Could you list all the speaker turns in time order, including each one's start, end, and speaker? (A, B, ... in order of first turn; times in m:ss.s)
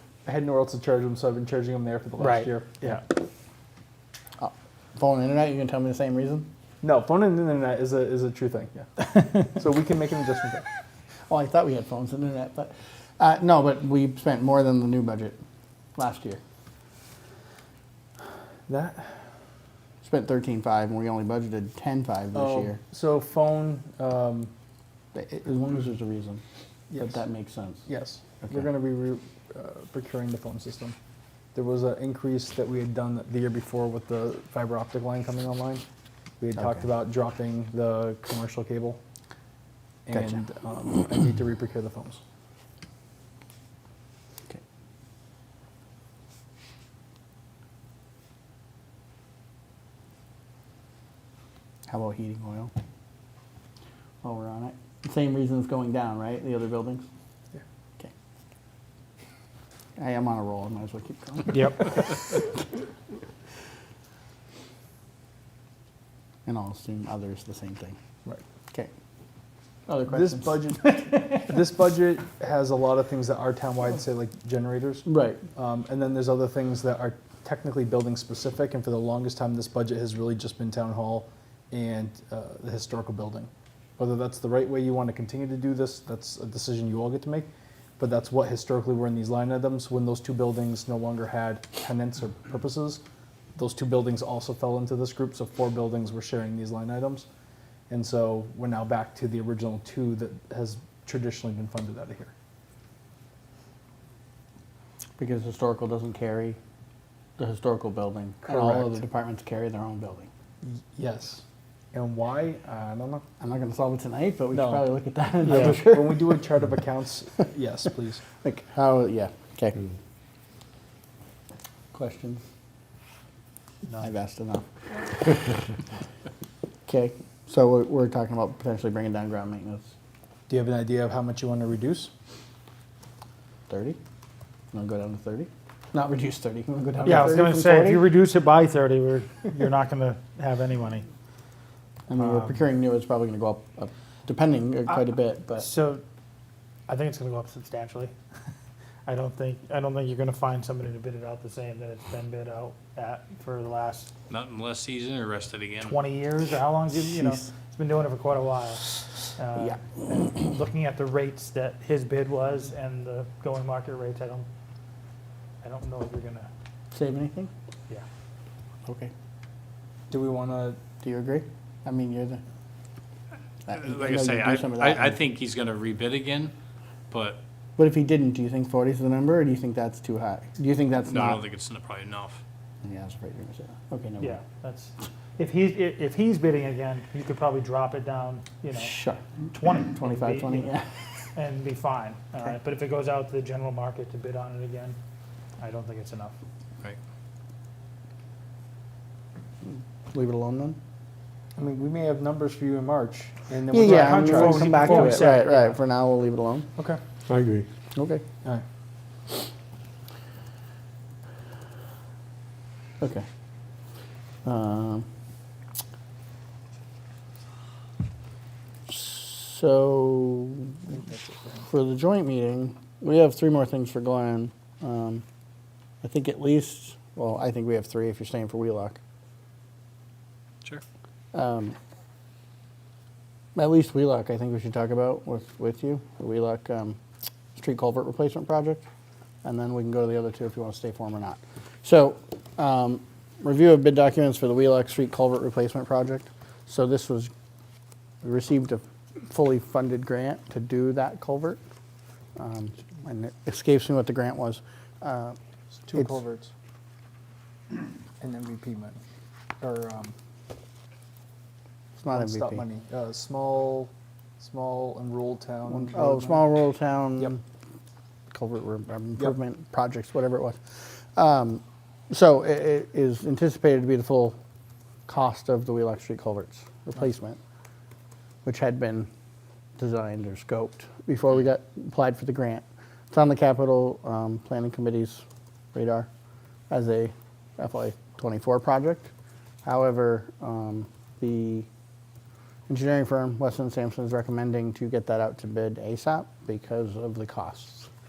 0:00.2-0:03.0 A
0:02.2-0:03.0 B
0:04.4-0:06.5 B
0:06.8-0:10.6 A
0:11.3-0:15.4 B
0:16.0-0:16.4 B
0:18.7-0:19.2 A
0:20.0-0:22.8 B
0:22.3-0:24.5 A
0:25.1-0:26.4 B
0:26.9-0:27.2 A
0:27.0-0:27.8 B
0:27.8-0:31.0 A
0:31.5-0:35.8 A
0:36.4-0:39.0 A
0:40.0-0:42.2 A
0:51.9-0:52.7 B
0:54.2-0:57.0 B
1:00.0-1:02.5 B
1:01.5-1:01.9 C
1:06.4-1:08.0 B
1:09.9-1:11.4 B
1:10.1-1:27.5 A
1:15.0-1:15.4 B
1:28.0-1:33.0 A
1:33.6-1:37.3 A
1:37.9-1:42.3 A
1:45.2-1:46.6 B
1:47.4-1:50.3 B
1:48.4-1:49.0 A
1:50.6-1:53.2 A
1:53.4-1:56.4 B
1:54.5-1:54.9 A
1:55.4-1:58.2 A
1:58.4-1:59.9 B
2:01.9-2:02.4 B
2:04.0-2:05.5 B
2:06.8-2:09.9 B
2:10.5-2:12.1 A
2:13.7-2:14.0 B
2:14.7-2:18.1 B
2:17.0-2:21.0 C
2:22.1-2:25.7 B
2:22.1-2:22.5 C
2:25.6-2:26.0 C
2:26.9-2:28.1 C
2:29.0-2:34.1 C
2:34.3-2:36.0 D
2:35.8-2:44.4 C
2:45.6-2:46.5 C
2:46.9-2:47.5 B
2:48.8-2:49.1 B
2:50.1-2:50.8 A
2:51.0-2:52.4 B
2:53.7-2:55.2 B
2:53.7-2:56.5 D
2:57.1-2:57.4 D
2:57.8-3:01.4 B
3:01.1-3:02.4 D
3:02.8-3:04.4 B
3:04.2-3:08.9 C
3:08.7-3:11.3 B
3:09.5-3:10.7 C
3:11.3-3:15.0 C
3:15.6-3:16.3 C
3:19.6-3:20.8 B
3:21.6-3:25.4 A
3:23.7-3:26.7 B
3:23.9-3:25.8 C
3:27.9-3:28.2 B
3:33.0-3:33.2 B
3:34.4-3:35.0 B
3:38.9-3:41.0 B
3:40.9-3:41.6 A
3:41.6-3:45.2 B
3:46.0-3:49.0 B
3:51.3-3:51.8 B
3:53.6-3:57.0 B
3:57.6-3:58.8 B
3:59.4-4:07.3 B
4:08.2-4:11.6 B
4:12.4-4:15.4 B
4:15.8-4:16.5 A
4:18.2-4:19.0 A
4:19.6-4:20.1 A
4:22.0-4:22.6 B
4:22.1-4:26.4 A
4:25.7-4:27.4 B
4:28.3-4:34.4 B
4:35.1-4:37.4 B
4:38.4-4:39.1 B
4:39.8-4:45.2 B
4:45.7-4:46.1 B
4:46.7-4:49.1 B
4:49.6-4:51.7 B
4:52.7-4:57.9 B